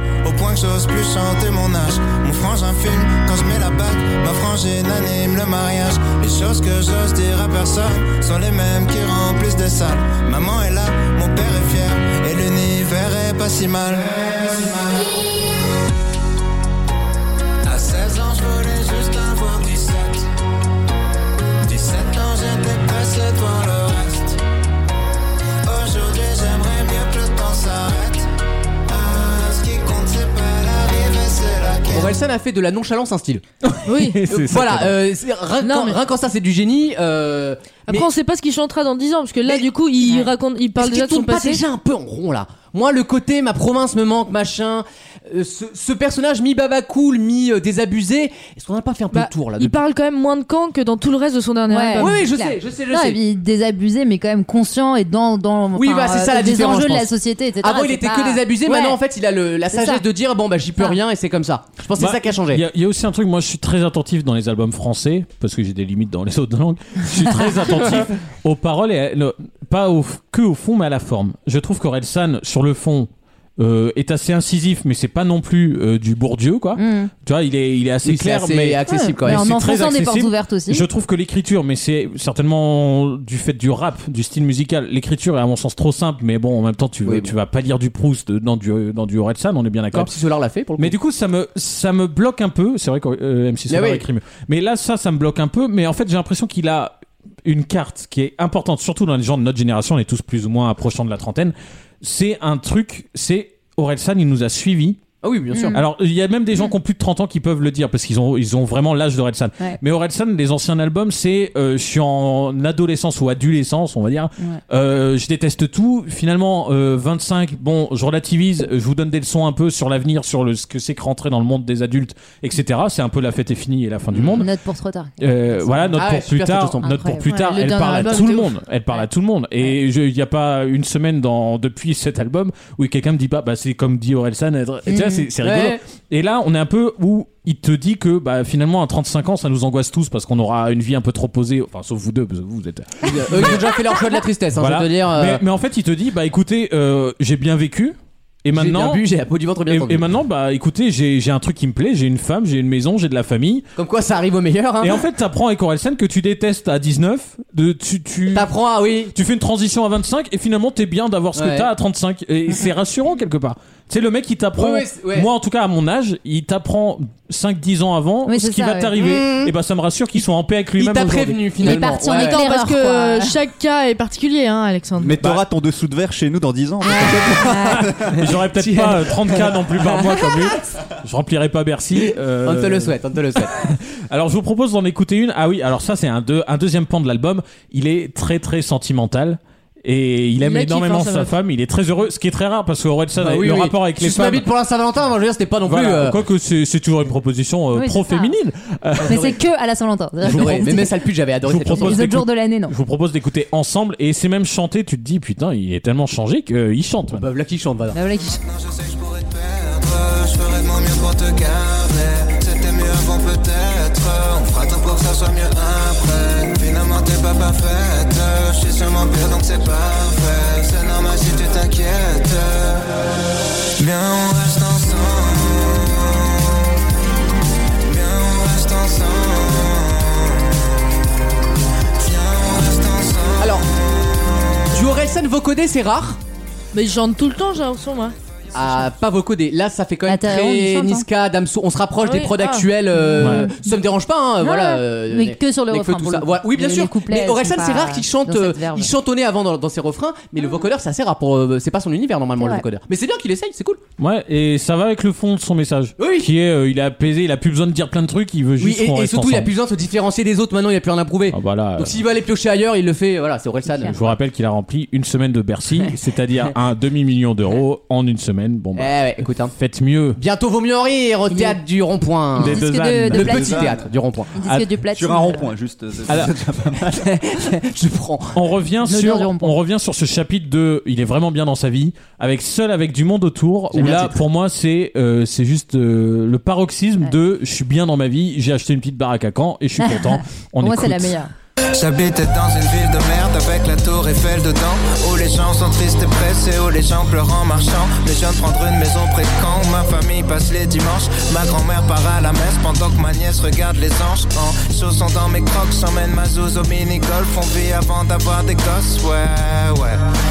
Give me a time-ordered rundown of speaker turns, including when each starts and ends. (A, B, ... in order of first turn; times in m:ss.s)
0:00.2-0:15.2 A
0:17.6-0:20.3 A
0:21.6-0:24.4 A
0:25.6-0:28.3 A
0:28.9-0:32.2 A
0:31.9-0:33.4 B
0:33.6-0:35.0 C
0:33.9-0:34.2 D
0:34.3-0:38.1 B
0:35.6-0:36.0 D
0:37.9-0:41.6 D
0:40.8-0:49.8 B
0:49.1-0:52.2 D
0:51.7-0:59.0 E
0:52.0-0:53.2 B
0:55.8-1:02.6 B
0:59.7-1:00.0 E
1:02.0-1:30.1 C
1:16.8-1:17.1 E
1:18.0-1:19.5 B
1:18.9-1:20.9 E
1:27.1-1:27.3 B
1:29.9-1:31.0 B
1:30.8-1:45.0 C
1:33.7-1:34.0 B
1:45.2-1:45.8 B
1:45.5-1:45.8 E
1:45.7-2:04.5 C
2:04.1-2:04.4 B
2:04.3-2:06.0 E
2:05.2-2:23.7 C
2:06.0-2:06.9 B
2:06.8-2:08.2 E
2:07.3-2:08.5 D
2:14.9-2:15.3 E
2:15.4-2:15.8 B
2:23.0-2:25.4 B
2:24.6-2:29.0 C
2:28.5-2:30.1 B
2:29.7-2:33.7 C
2:33.8-2:35.0 B
2:34.8-2:38.5 C
2:38.3-2:39.2 B
2:39.1-2:51.4 C
2:41.4-2:41.7 B
2:44.6-2:45.3 B
2:48.3-2:49.1 E
2:49.0-2:49.5 B
2:50.8-2:52.4 B
2:51.6-2:53.4 E
2:52.1-2:55.2 D
2:55.0-2:58.3 F
2:56.8-2:57.9 E
2:57.7-3:14.5 C
2:58.6-2:59.9 B
3:02.4-3:03.6 B
3:10.4-3:11.3 D
3:13.2-3:16.2 B
3:15.7-3:19.2 C
3:17.7-3:18.4 E
3:19.0-3:20.9 E
3:19.0-3:19.4 B
3:20.2-3:22.0 B
3:20.3-3:20.8 C
3:21.4-3:27.3 C
3:21.7-3:22.7 E
3:27.1-3:28.0 B
3:27.9-3:28.4 E
3:28.4-3:43.1 A
3:43.8-3:46.7 A
3:47.8-3:50.8 A
3:52.0-3:53.6 A
3:53.4-3:53.6 B
3:54.7-3:56.2 B
3:56.7-3:58.2 D
3:58.5-4:13.8 B
4:00.1-4:01.1 E
4:02.0-4:02.7 D
4:02.9-4:03.8 E
4:03.2-4:03.5 C
4:04.4-4:08.9 E
4:12.4-4:12.6 E
4:14.0-4:19.5 C
4:16.0-4:16.3 B
4:18.6-4:24.1 B
4:21.3-4:22.0 C
4:23.8-4:29.0 C
4:28.8-4:29.6 B
4:29.5-4:30.2 C
4:30.2-4:34.3 B
4:31.3-4:31.6 E
4:32.4-4:33.4 C
4:32.4-4:33.7 E
4:33.2-4:33.9 F
4:34.4-4:35.5 E
4:34.5-4:37.1 F
4:36.1-4:36.3 C
4:36.9-4:38.4 B
4:38.3-4:51.1 C
4:38.8-4:39.6 E
4:43.7-4:44.2 B
4:49.8-4:51.3 E
4:51.7-5:10.0 A